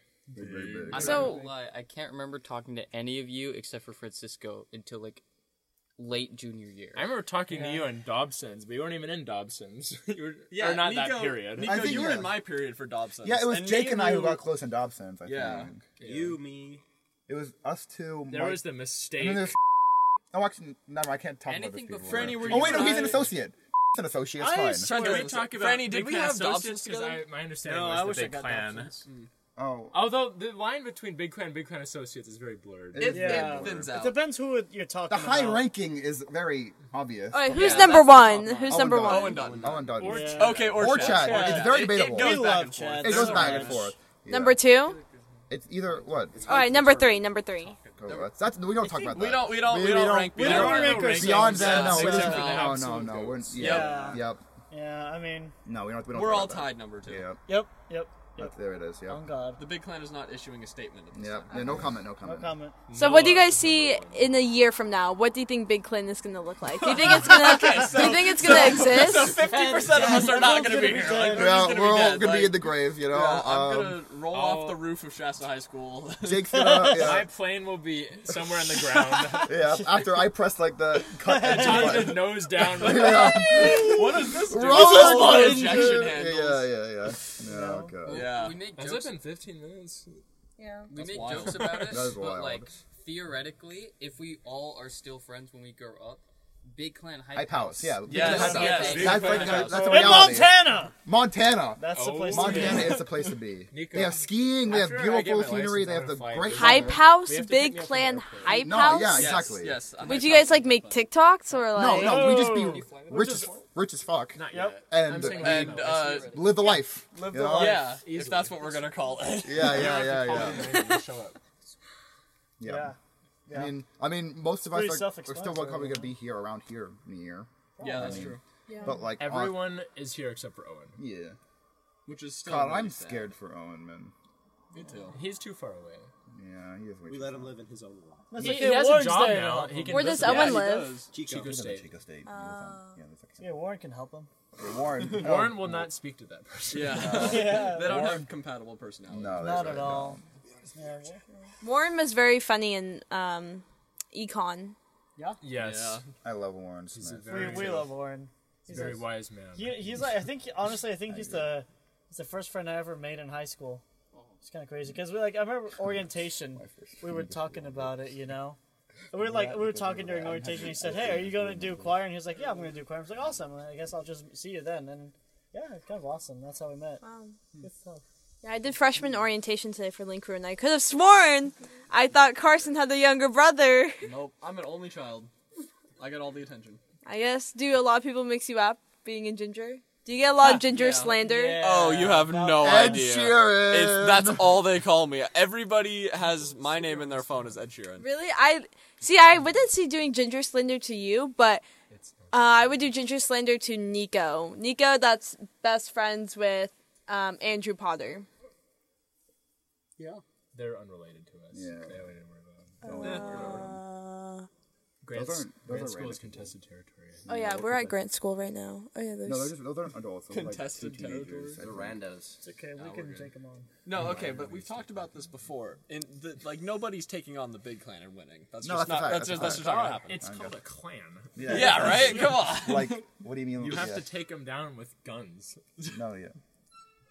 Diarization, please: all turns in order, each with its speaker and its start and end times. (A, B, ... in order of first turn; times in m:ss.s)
0:00.4-0:01.3 A
0:00.4-0:01.4 B
0:00.9-0:05.2 C
0:01.0-0:01.4 D
0:06.0-0:07.1 C
0:06.9-0:12.1 B
0:07.5-0:07.9 E
0:10.5-0:14.5 F
0:11.6-0:12.4 A
0:13.2-0:15.8 A
0:15.2-0:15.7 F
0:16.0-0:16.8 G
0:16.0-0:16.4 B
0:17.3-0:18.7 A
0:18.3-0:19.5 B
0:19.2-0:19.6 A
0:20.3-0:25.2 A
0:21.5-0:23.1 C
0:22.1-0:23.3 F
0:24.4-0:25.4 E
0:24.8-0:27.2 F
0:24.9-0:29.0 B
0:27.6-0:29.0 E
0:29.6-0:30.1 A
0:29.9-0:33.4 B
0:32.9-0:33.9 A
0:33.0-0:34.2 F
0:33.1-0:35.7 E
0:35.1-0:38.2 A
0:37.3-0:39.4 D
0:37.5-0:43.9 F
0:38.7-0:44.6 A
0:39.3-0:40.1 G
0:39.9-0:41.3 B
0:40.0-0:43.9 E
0:44.3-0:45.0 D
0:45.5-0:46.4 A
0:45.9-0:47.3 G
0:46.5-0:47.8 D
0:47.6-0:48.3 F
0:48.0-0:54.4 A
0:48.8-0:52.9 F
0:50.4-0:52.6 E
0:50.4-0:53.8 B
0:53.5-0:54.2 F
0:53.6-0:55.6 E
0:55.7-0:57.4 A
0:56.1-0:57.3 F
0:57.5-0:58.6 E
0:58.4-0:59.2 A
0:59.1-0:59.6 E
0:59.6-1:01.8 F
1:01.1-1:02.6 A
1:01.5-1:02.8 E
1:02.9-1:04.3 B
1:02.9-1:09.4 D
1:06.8-1:16.4 F
1:08.5-1:11.8 E
1:11.3-1:14.0 A
1:14.3-1:14.8 B
1:16.2-1:17.3 A
1:16.5-1:17.2 E
1:16.9-1:19.6 B
1:18.9-1:19.4 F
1:19.4-1:28.4 A
1:21.2-1:22.2 E
1:21.3-1:24.0 B
1:23.0-1:26.7 F
1:24.6-1:25.7 B
1:27.4-1:28.0 E
1:28.1-1:29.2 C
1:28.1-1:28.6 F
1:28.7-1:30.1 B
1:30.6-1:30.9 D
1:30.9-1:36.2 C
1:30.9-1:32.1 F
1:31.4-1:31.8 B
1:31.9-1:32.7 A
1:36.7-1:39.7 C
1:37.3-1:47.0 A
1:38.1-1:40.1 F
1:38.2-1:40.0 B
1:39.7-1:40.9 E
1:41.8-1:43.0 E
1:41.9-1:43.0 B
1:43.7-1:48.9 B
1:46.5-1:49.5 D
1:48.5-1:49.8 A
1:49.1-1:51.1 F
1:50.0-1:52.4 D
1:51.8-1:57.8 A
1:51.9-1:53.6 E
1:52.6-1:53.4 C
1:54.4-1:56.4 B
1:54.5-1:54.8 E
1:55.2-1:56.4 F
1:55.8-1:56.6 C
1:57.1-1:57.9 E
1:57.6-2:00.6 F
1:57.9-2:01.4 B
1:59.4-2:00.8 A
2:02.6-2:02.9 A
2:02.6-2:03.0 E
2:03.5-2:03.7 E
2:03.5-2:09.6 A
2:04.7-2:06.1 E
2:07.8-2:08.4 E
2:07.8-2:08.4 F
2:08.7-2:09.0 D
2:09.2-2:11.0 B
2:11.0-2:11.4 A
2:12.1-2:13.3 F
2:12.4-2:14.1 A
2:14.7-2:15.2 F
2:15.1-2:16.1 B
2:16.3-2:17.5 A
2:17.1-2:18.6 G
2:18.3-2:20.1 E
2:18.4-2:21.9 B
2:19.9-2:21.0 D
2:20.1-2:21.1 F
2:21.1-2:21.6 G
2:21.3-2:23.7 A
2:22.3-2:23.0 D
2:23.4-2:24.3 E
2:24.6-2:25.9 A
2:25.1-2:27.4 B
2:26.7-2:29.7 F
2:26.9-2:28.2 A
2:27.2-2:28.2 E
2:29.1-2:30.2 A
2:29.4-2:30.2 E
2:30.8-2:31.2 E
2:31.6-2:34.8 D
2:35.2-2:35.4 E
2:35.4-2:36.0 B
2:35.5-2:36.0 F
2:36.2-2:37.8 A
2:36.9-2:38.0 B
2:37.3-2:43.8 E
2:38.7-2:40.0 B
2:41.1-2:41.6 A
2:44.4-2:48.6 E
2:46.6-2:48.1 A
2:49.1-2:57.0 E
2:49.1-2:52.0 A
2:57.0-2:57.4 D
2:57.6-2:58.0 E
2:58.4-3:04.0 D
3:04.0-3:05.3 F
3:06.0-3:06.8 F
3:07.0-3:11.6 D
3:10.4-3:13.1 E
3:10.7-3:18.1 F
3:12.6-3:14.5 A
3:16.5-3:17.3 B
3:18.0-3:21.6 D
3:21.9-3:22.8 B
3:22.3-3:28.3 D
3:30.5-3:32.8 B
3:31.5-3:32.1 A
3:32.8-3:33.8 A
3:32.8-3:34.5 D
3:33.0-3:33.7 F
3:35.0-3:37.3 B
3:35.1-3:36.5 A
3:37.3-3:37.9 A
3:37.3-3:39.6 D
3:39.2-3:42.0 A
3:40.3-3:41.6 F
3:41.6-3:42.4 G
3:42.4-3:43.7 E
3:42.8-3:43.2 F
3:43.8-3:50.2 F
3:44.0-3:44.9 B
3:48.6-3:50.6 A
3:49.6-3:52.4 B
3:51.4-3:54.1 A
3:51.4-3:53.0 F
3:53.6-3:55.6 B
3:55.9-3:56.4 A